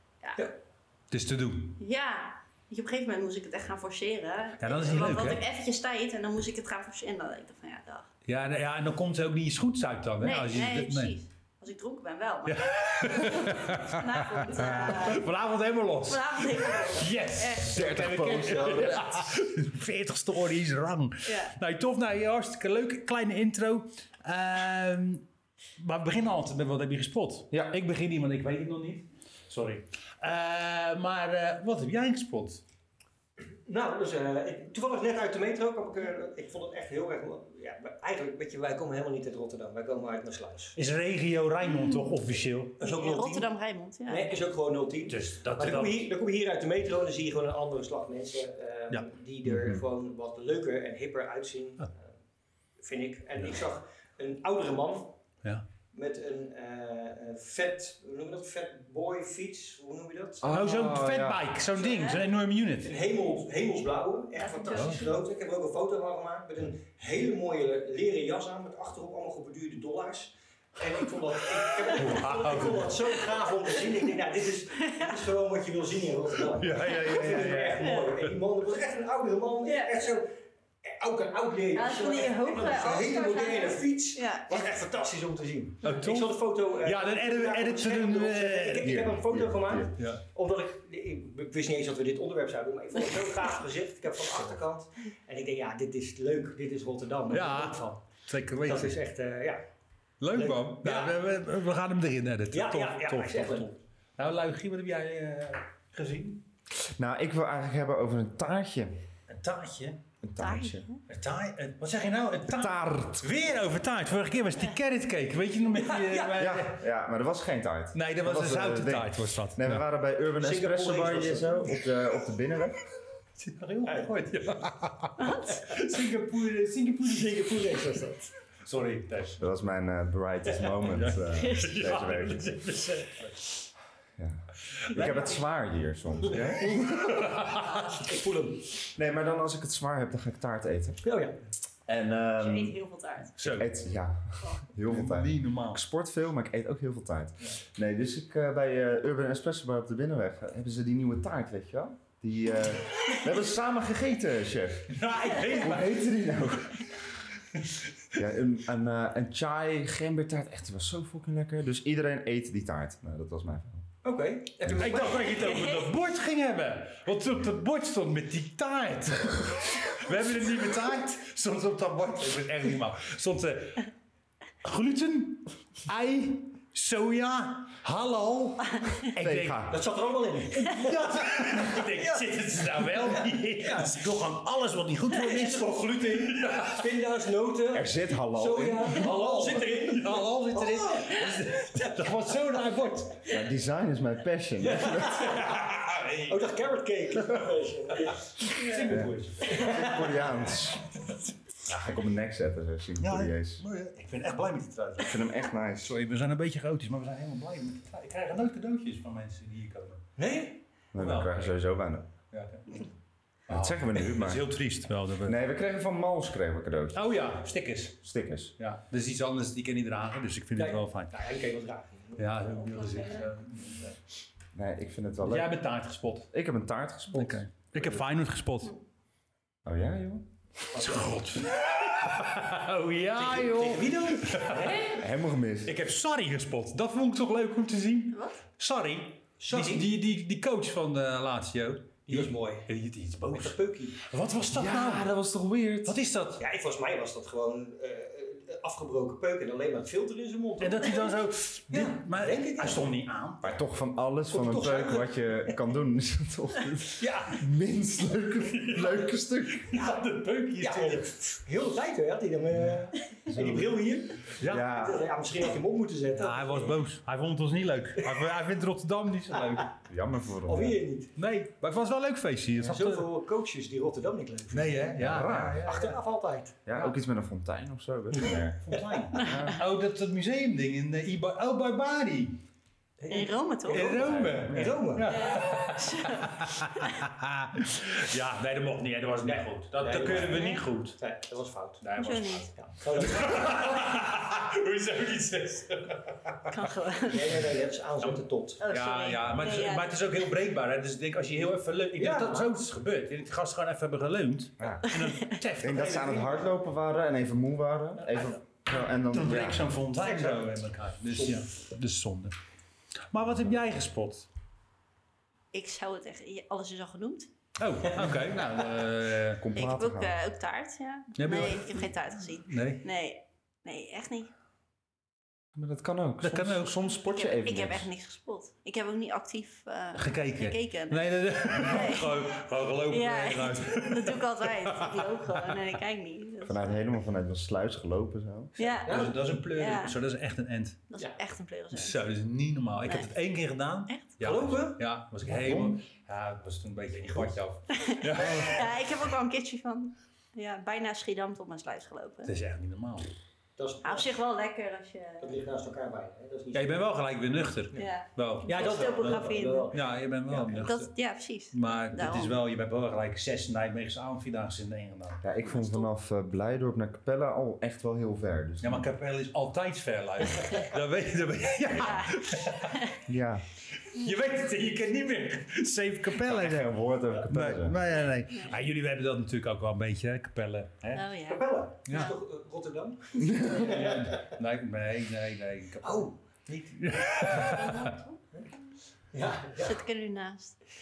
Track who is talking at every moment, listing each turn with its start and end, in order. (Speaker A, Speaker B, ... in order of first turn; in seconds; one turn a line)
Speaker A: 1.1-1.8
Speaker B: 1.8-8.1
Speaker A: 4.6-5.4
Speaker A: 8.2-11.1
Speaker B: 10.2-15.3
Speaker A: 12.4-25.2
Speaker B: 16.1-17.9
Speaker C: 17.6-19.3
Speaker D: 18.5-18.9
Speaker B: 21.2-21.5
Speaker A: 25.8-32.6
Speaker D: 33.6-40.8
Speaker A: 40.8-42.8
Speaker D: 42.8-43.5
Speaker B: 42.8-44.3
Speaker D: 44.1-52.1
Speaker A: 45.1-46.0
Speaker C: 49.5-49.8
Speaker D: 52.8-55.2
Speaker D: 55.9-60.5
Speaker C: 60.4-61.5
Speaker A: 60.5-62.9
Speaker D: 61.8-62.2
Speaker B: 61.9-62.2
Speaker D: 62.8-80.3
Speaker B: 64.4-65.2
Speaker A: 64.7-65.0
Speaker A: 71.8-73.1
Speaker A: 76.5-78.3
Speaker B: 77.8-78.1
Speaker B: 79.7-80.1
Speaker D: 80.8-98.0
Speaker B: 81.7-84.5
Speaker A: 85.8-89.0
Speaker C: 88.8-89.9
Speaker A: 90.0-90.2
Speaker A: 97.3-99.0
Speaker D: 98.6-99.6
Speaker A: 100.2-106.4
Speaker D: 100.3-101.2
Speaker D: 102.5-103.7
Speaker C: 106.8-109.0
Speaker A: 109.3-110.0
Speaker C: 110.2-110.9
Speaker B: 110.4-111.0
Speaker A: 111.1-116.8
Speaker C: 112.5-113.3
Speaker D: 115.9-116.4
Speaker C: 116.3-122.8
Speaker A: 117.9-119.8
Speaker D: 120.4-121.7
Speaker A: 123.4-127.6
Speaker B: 125.2-125.5
Speaker D: 127.0-128.3
Speaker A: 128.6-129.4
Speaker C: 129.4-132.6
Speaker A: 130.9-133.6
Speaker C: 134.2-137.0
Speaker A: 134.7-135.2
Speaker A: 136.3-138.0
Speaker D: 136.4-138.9
Speaker C: 138.9-141.0
Speaker D: 141.0-141.4
Speaker C: 141.9-142.8
Speaker B: 142.4-143.3
Speaker A: 143.4-143.7
Speaker C: 143.4-157.0
Speaker A: 144.8-145.8
Speaker A: 154.9-156.1
Speaker A: 157.6-157.8
Speaker C: 158.1-163.8
Speaker D: 164.0-165.8
Speaker A: 164.6-173.9
Speaker A: 174.6-179.8
Speaker C: 179.2-179.8
Speaker D: 179.7-183.9
Speaker A: 180.5-186.9
Speaker D: 185.2-192.0
Speaker C: 187.7-189.0
Speaker A: 188.9-193.3
Speaker C: 193.3-195.3
Speaker D: 194.6-195.7
Speaker A: 195.2-196.4
Speaker D: 196.3-198.7
Speaker A: 198.5-200.3
Speaker B: 198.6-198.8
Speaker C: 198.9-200.9
Speaker D: 199.4-200.3
Speaker C: 201.7-203.6
Speaker A: 203.0-210.0
Speaker C: 205.0-205.9
Speaker D: 210.2-210.6
Speaker A: 210.9-211.6
Speaker C: 210.9-212.1
Speaker A: 212.3-212.9
Speaker A: 213.5-215.4
Speaker C: 213.5-214.4
Speaker C: 215.2-217.1
Speaker A: 216.9-218.0
Speaker C: 218.0-218.5
Speaker A: 218.6-221.2
Speaker D: 220.6-222.5
Speaker A: 222.2-224.0
Speaker B: 222.7-223.2
Speaker C: 224.5-225.5
Speaker A: 225.2-226.3
Speaker C: 226.3-227.9
Speaker A: 227.1-228.8
Speaker C: 229.6-230.3
Speaker D: 230.7-231.2
Speaker A: 230.8-235.0
Speaker D: 233.2-235.0
Speaker C: 234.9-235.8
Speaker A: 235.6-245.1
Speaker B: 238.1-238.4
Speaker D: 239.4-239.9
Speaker D: 242.1-242.7
Speaker D: 243.3-244.0
Speaker C: 244.5-246.0
Speaker A: 245.8-246.4
Speaker D: 246.4-252.9
Speaker A: 250.6-253.6
Speaker C: 253.4-259.7
Speaker D: 254.3-255.5
Speaker D: 257.0-257.4
Speaker A: 258.6-261.1
Speaker D: 260.6-266.8
Speaker C: 263.3-263.7
Speaker A: 264.3-264.7
Speaker C: 264.4-265.1
Speaker A: 266.1-269.8
Speaker C: 269.9-270.8
Speaker D: 270.4-271.1
Speaker A: 271.1-273.1
Speaker D: 272.6-276.6
Speaker A: 274.5-276.0
Speaker C: 275.0-275.7
Speaker C: 276.6-279.6
Speaker D: 278.1-278.8
Speaker A: 278.6-282.4
Speaker D: 283.0-285.4
Speaker B: 283.1-284.1
Speaker A: 283.7-291.0
Speaker C: 284.1-284.8
Speaker B: 285.1-287.0
Speaker D: 289.2-291.8
Speaker B: 290.3-290.6
Speaker A: 291.8-296.5
Speaker B: 291.9-292.5
Speaker D: 292.5-293.8
Speaker B: 296.5-297.3
Speaker D: 297.1-298.6
Speaker A: 298.0-306.4
Speaker B: 298.6-300.2
Speaker D: 302.0-302.5
Speaker C: 304.6-304.9
Speaker B: 304.9-305.3
Speaker C: 305.6-309.7
Speaker D: 305.8-306.3
Speaker A: 309.1-312.3
Speaker D: 309.9-310.6
Speaker D: 311.1-311.4
Speaker A: 313.1-314.3
Speaker B: 315.5-317.3
Speaker A: 317.6-319.4
Speaker C: 319.4-320.2
Speaker B: 319.6-324.3
Speaker A: 321.1-322.8
Speaker C: 325.5-327.9
Speaker A: 326.2-327.0
Speaker B: 327.1-332.3
Speaker A: 329.9-335.6
Speaker B: 332.9-336.8
Speaker C: 336.4-338.5
Speaker B: 338.6-339.9
Speaker D: 338.9-339.2
Speaker A: 338.9-340.8
Speaker B: 340.9-342.0
Speaker A: 341.7-348.8
Speaker D: 344.2-344.8
Speaker C: 345.2-345.8
Speaker B: 347.7-352.3
Speaker A: 352.2-353.1
Speaker D: 353.6-354.1
Speaker B: 353.8-355.4
Speaker D: 355.2-356.9
Speaker A: 356.5-360.9
Speaker B: 357.7-359.7
Speaker D: 358.5-360.7
Speaker B: 360.5-362.3
Speaker A: 361.5-365.2
Speaker C: 365.2-368.9
Speaker B: 365.4-365.9
Speaker A: 368.6-372.8
Speaker B: 371.8-373.0
Speaker C: 373.1-373.4
Speaker A: 373.8-382.1
Speaker C: 376.2-377.8
Speaker B: 380.9-382.1
Speaker D: 381.3-384.3
Speaker C: 383.2-383.6
Speaker A: 383.5-386.1
Speaker D: 385.8-387.6
Speaker A: 386.6-387.9
Speaker B: 387.4-388.6
Speaker D: 389.1-389.8
Speaker B: 389.6-390.6